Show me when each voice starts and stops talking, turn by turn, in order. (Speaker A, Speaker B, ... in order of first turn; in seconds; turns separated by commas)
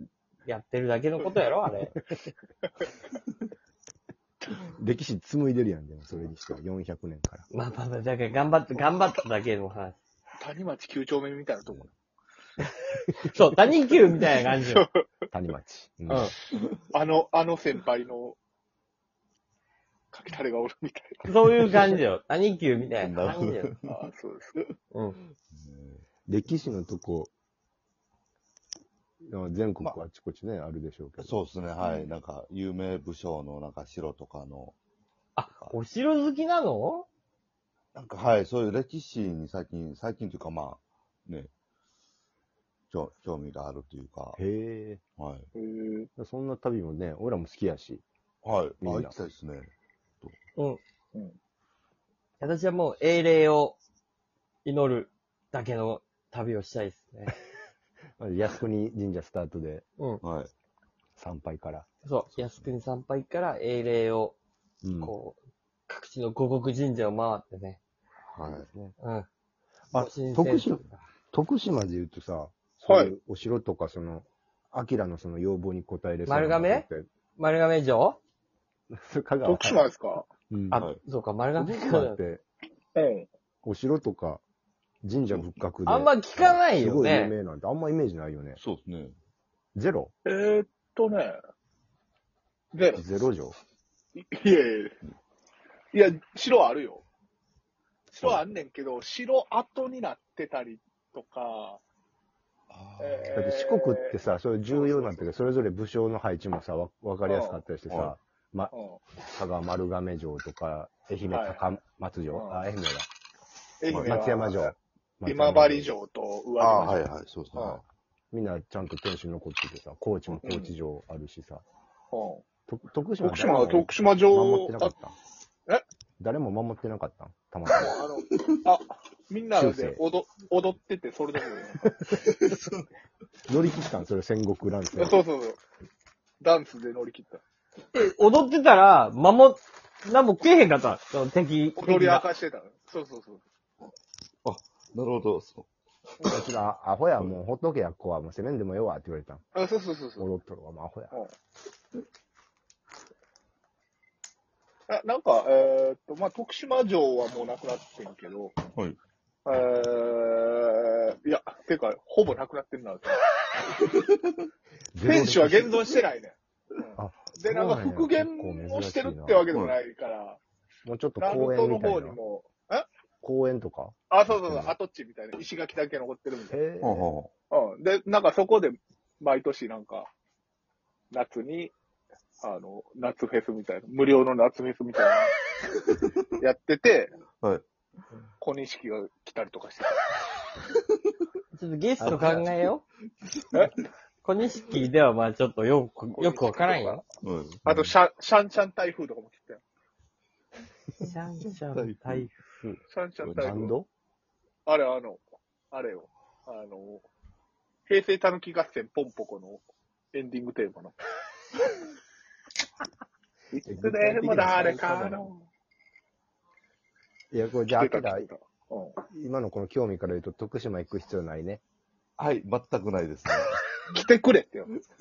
Speaker A: 0.5-1.9, Speaker B: 4.7-7.5, Speaker A: 7.5-10.0, Speaker C: 10.4-11.9, Speaker A: 13.3-14.9, Speaker C: 14.6-15.1, Speaker B: 15.3-16.3, Speaker A: 16.1-16.4, Speaker C: 16.6-18.4, Speaker C: 20.1-21.9, Speaker A: 21.2-23.7, Speaker D: 23.0-23.9, Speaker C: 23.9-24.6, Speaker A: 24.9-25.2, Speaker D: 25.5-26.1, Speaker B: 26.3-27.3, Speaker B: 29.3-31.4, Speaker D: 31.2-34.8, Speaker A: 35.4-37.1, Speaker D: 35.5-35.8, Speaker D: 38.0-41.5, Speaker D: 42.9-44.4, Speaker B: 44.4-45.0, Speaker D: 45.2-45.5, Speaker C: 45.5-46.1, Speaker B: 46.2-48.0, Speaker D: 48.4-49.7, Speaker B: 48.8-49.1, Speaker A: 50.6-50.8, Speaker A: 52.4-53.8, Speaker A: 54.6-57.3, Speaker B: 58.2-59.9, Speaker D: 60.2-60.5, Speaker B: 61.2-61.9, Speaker A: 62.0-64.4, Speaker B: 64.8-65.1, Speaker A: 65.0-67.8, Speaker D: 68.3-68.7, Speaker B: 68.5-69.0, Speaker A: 69.0-69.3, Speaker B: 69.9-77.1, Speaker A: 69.9-70.9, Speaker C: 72.8-73.1, Speaker A: 76.3-76.9, Speaker A: 77.4-78.2, Speaker B: 78.9-79.8, Speaker C: 79.4-80.3, Speaker B: 80.5-80.8, Speaker A: 80.7-82.2, Speaker D: 80.8-81.0, Speaker B: 81.6-82.4, Speaker C: 83.0-83.3, Speaker B: 83.6-84.4, Speaker B: 85.0-88.6, Speaker A: 85.8-87.3, Speaker D: 88.6-89.2, Speaker B: 89.8-90.1, Speaker C: 90.3-91.4, Speaker C: 92.7-93.0, Speaker B: 93.0-93.6, Speaker C: 94.2-95.0, Speaker C: 95.9-97.0, Speaker C: 98.2-101.8, Speaker D: 102.7-103.4, Speaker C: 103.0-104.2, Speaker B: 103.3-108.7, Speaker C: 104.7-105.3, Speaker C: 107.3-107.7, Speaker D: 107.9-108.2, Speaker C: 108.7-109.0, Speaker B: 109.2-113.1, Speaker C: 111.3-111.7, Speaker C: 112.3-112.6, Speaker C: 113.8-117.0, Speaker D: 113.9-114.2, Speaker B: 113.9-116.0, Speaker D: 116.6-117.8, Speaker C: 117.5-117.8, Speaker B: 118.3-121.6, Speaker C: 120.3-120.8, Speaker C: 122.1-122.4, Speaker B: 122.7-125.2, Speaker C: 123.2-124.9, Speaker B: 126.2-128.0, Speaker D: 127.7-128.6, Speaker C: 127.8-131.9, Speaker B: 129.6-130.0, Speaker B: 131.8-132.3, Speaker D: 132.1-132.8, Speaker B: 133.5-135.2, Speaker C: 135.0-135.6, Speaker C: 136.4-137.4, Speaker A: 137.9-142.3, Speaker C: 141.8-143.4, Speaker D: 144.4-145.7, Speaker C: 146.2-146.5, Speaker B: 146.2-149.4, Speaker C: 149.6-150.3, Speaker B: 150.2-151.1, Speaker C: 154.9-158.7, Speaker C: 159.5-163.2, Speaker B: 164.9-165.8, Speaker C: 165.0-170.4, Speaker B: 167.0-169.5, Speaker D: 169.5-169.8, Speaker B: 170.8-172.2, Speaker C: 171.2-172.9, Speaker B: 173.2-174.7, Speaker C: 174.1-176.6, Speaker B: 176.5-177.1, Speaker D: 176.8-177.3, Speaker C: 177.5-180.1, Speaker C: 181.1-181.8, Speaker C: 182.4-185.3, Speaker C: 186.4-187.2, Speaker C: 188.4-190.0, Speaker A: 191.5-192.8, Speaker B: 192.0-192.4, Speaker A: 194.2-197.0, Speaker C: 196.2-197.1, Speaker D: 197.2-197.9, Speaker C: 197.7-199.6, Speaker A: 201.0-202.8, Speaker D: 201.4-202.3, Speaker C: 202.9-203.8, Speaker D: 203.2-203.7, Speaker B: 203.4-203.9, Speaker C: 204.7-207.1, Speaker C: 207.9-211.0, Speaker C: 213.5-215.5, Speaker B: 213.7-215.2, Speaker B: 217.3-218.3, Speaker C: 217.8-219.0, Speaker B: 219.1-221.6, Speaker D: 222.2-223.7, Speaker C: 223.9-224.7